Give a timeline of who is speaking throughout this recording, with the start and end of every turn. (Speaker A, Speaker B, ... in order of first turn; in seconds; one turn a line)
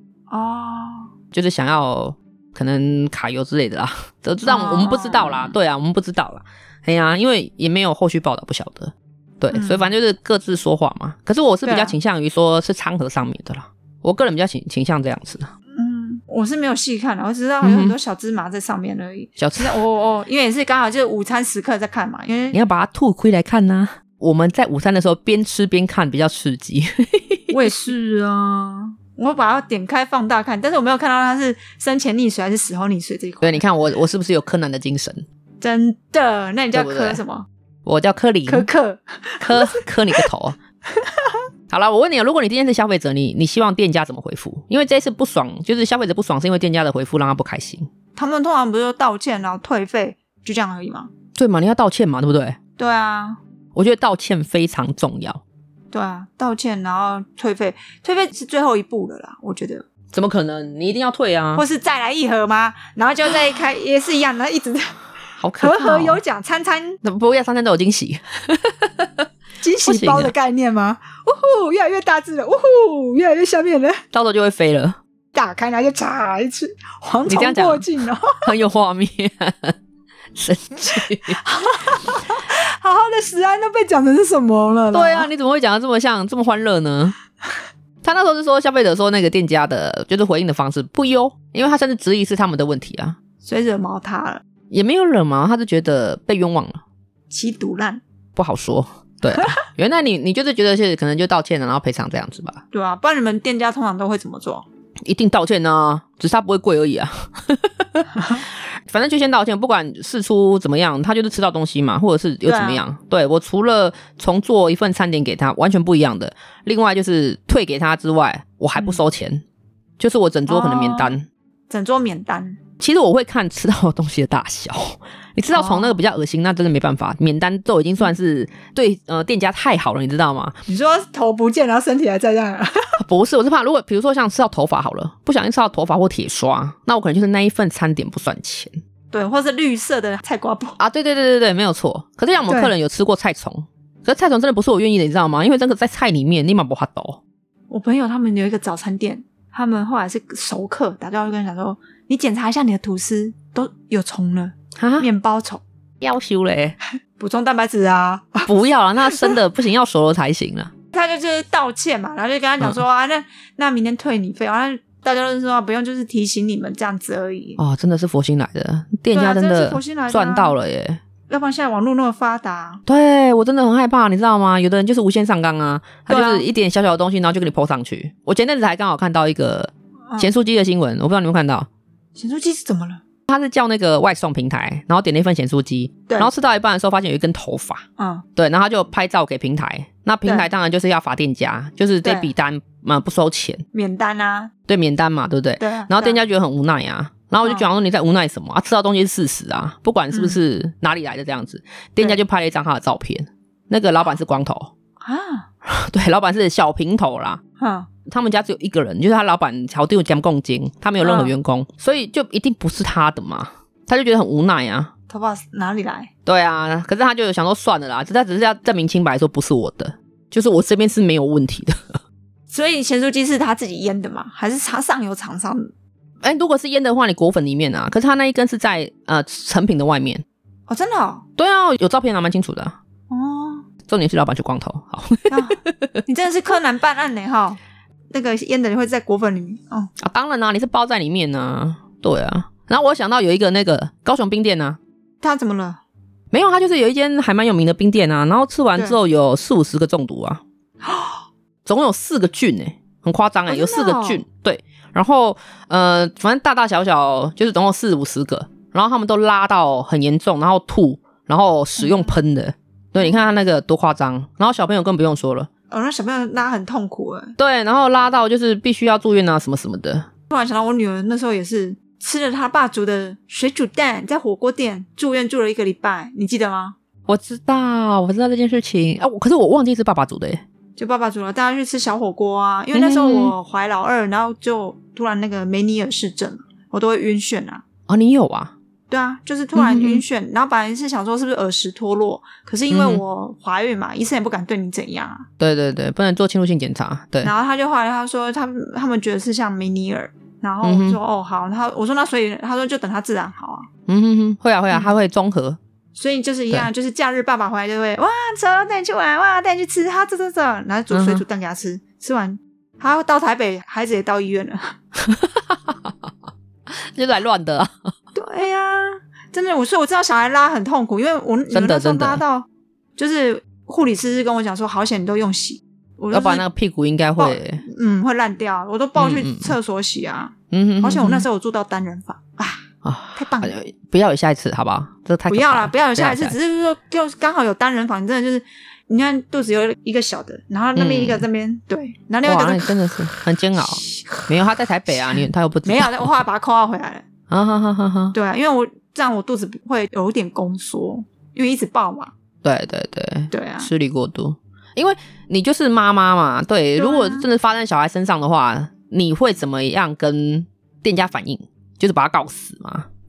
Speaker A: 0.3-1.1
Speaker B: 1.3-15.5
Speaker A: 4.5-5.5
Speaker A: 9.5-9.9
Speaker A: 11.6-11.9
Speaker A: 15.8-22.6
Speaker B: 17.6-18.0
Speaker B: 19.4-19.8
Speaker B: 22.5-27.6
Speaker A: 27.5-33.6
Speaker B: 33.4-35.2
Speaker A: 35.6-37.5
Speaker B: 36.7-37.2
Speaker B: 37.8-38.7
Speaker A: 38.5-40.3
Speaker B: 39.4-40.6
Speaker A: 40.9-41.4
Speaker B: 41.7-47.9
Speaker A: 48.1-51.1
Speaker B: 51.4-52.6
Speaker A: 52.8-53.4
Speaker B: 53.7-55.4
Speaker A: 55.9-59.9
Speaker B: 60.1-61.6
Speaker A: 61.5-64.9
Speaker B: 65.4-66.2
Speaker A: 65.6-67.0
Speaker B: 67.0-69.3
Speaker A: 69.6-74.0
Speaker B: 69.8-70.3
Speaker B: 74.1-75.0
Speaker A: 75.3-78.5
Speaker B: 77.3-79.8
Speaker B: 80.3-81.4
Speaker A: 81.0-85.3
Speaker B: 84.9-87.2
Speaker B: 88.0-93.2
Speaker A: 93.4-94.4
Speaker B: 94.7-96.8
Speaker A: 97.3-98.0
Speaker B: 98.3-102.6
Speaker A: 102.7-104.7
Speaker B: 105.0-119.4
Speaker A: 108.1-108.4
Speaker A: 112.5-112.8
Speaker B: 120.0-121.3
Speaker A: 120.5-121.1
Speaker A: 121.7-122.6
Speaker B: 122.8-130.6
Speaker A: 125.5-126.0
Speaker A: 130.7-133.0
Speaker B: 133.0-138.7
Speaker A: 139.1-140.8
Speaker B: 140.8-147.2
Speaker A: 147.7-155.6
Speaker B: 154.8-155.1
Speaker B: 156.0-156.8
Speaker A: 157.2-158.5
Speaker B: 158.4-160.7
Speaker A: 159.1-159.3
Speaker A: 160.9-167.6
Speaker B: 167.6-171.0
Speaker A: 169.1-170.5
Speaker A: 171.3-172.8
Speaker B: 172.8-181.7
Speaker A: 176.1-176.5
Speaker A: 182.2-183.0
Speaker B: 183.3-187.8
Speaker A: 188.0-188.2
Speaker B: 188.3-193.6
Speaker A: 192.0-192.3
Speaker A: 193.7-194.5
Speaker B: 194.7-204.7
Speaker A: 195.6-196.2
Speaker A: 200.1-200.4
Speaker A: 205.0-205.5
Speaker B: 205.6-207.4
Speaker A: 207.6-207.9
Speaker B: 208.1-214.9
Speaker A: 211.0-211.3
Speaker A: 215.1-216.1
Speaker B: 216.2-222.0
Speaker A: 222.5-225.7
Speaker B: 226.2-230.2
Speaker A: 230.7-231.2
Speaker B: 231.4-232.8
Speaker A: 233.1-233.7
Speaker B: 233.9-236.0
Speaker A: 235.3-237.6
Speaker A: 238.1-239.9
Speaker B: 240.0-244.8
Speaker A: 245.2-245.8
Speaker B: 246.3-250.4
Speaker A: 250.8-251.2
Speaker B: 251.6-265.5
Speaker A: 253.5-254.2
Speaker A: 261.8-262.1
Speaker A: 265.7-267.3
Speaker B: 267.4-270.1
Speaker A: 270.3-276.8
Speaker B: 277.1-280.4
Speaker A: 280.8-287.6
Speaker B: 282.7-283.3
Speaker B: 287.9-288.5
Speaker A: 288.9-295.3
Speaker B: 289.5-290.0
Speaker B: 292.7-293.0
Speaker B: 295.4-297.3
Speaker A: 297.2-303.7
Speaker B: 300.6-301.0
Speaker B: 303.9-305.6
Speaker A: 305.9-314.8
Speaker B: 310.9-311.2
Speaker B: 315.0-316.1
Speaker B: 316.7-317.9
Speaker A: 318.1-326.4
Speaker B: 321.5-322.2
Speaker B: 326.1-327.6
Speaker A: 327.2-333.6
Speaker B: 328.9-329.6
Speaker B: 330.5-331.3
Speaker B: 332.8-336.4
Speaker A: 335.3-342.8
Speaker B: 340.8-341.3
Speaker B: 342.2-346.1
Speaker A: 343.6-344.3
Speaker A: 344.9-347.0
Speaker B: 347.3-348.1
Speaker A: 348.1-352.1
Speaker B: 352.4-362.9
Speaker A: 353.3-353.7
Speaker A: 356.8-357.2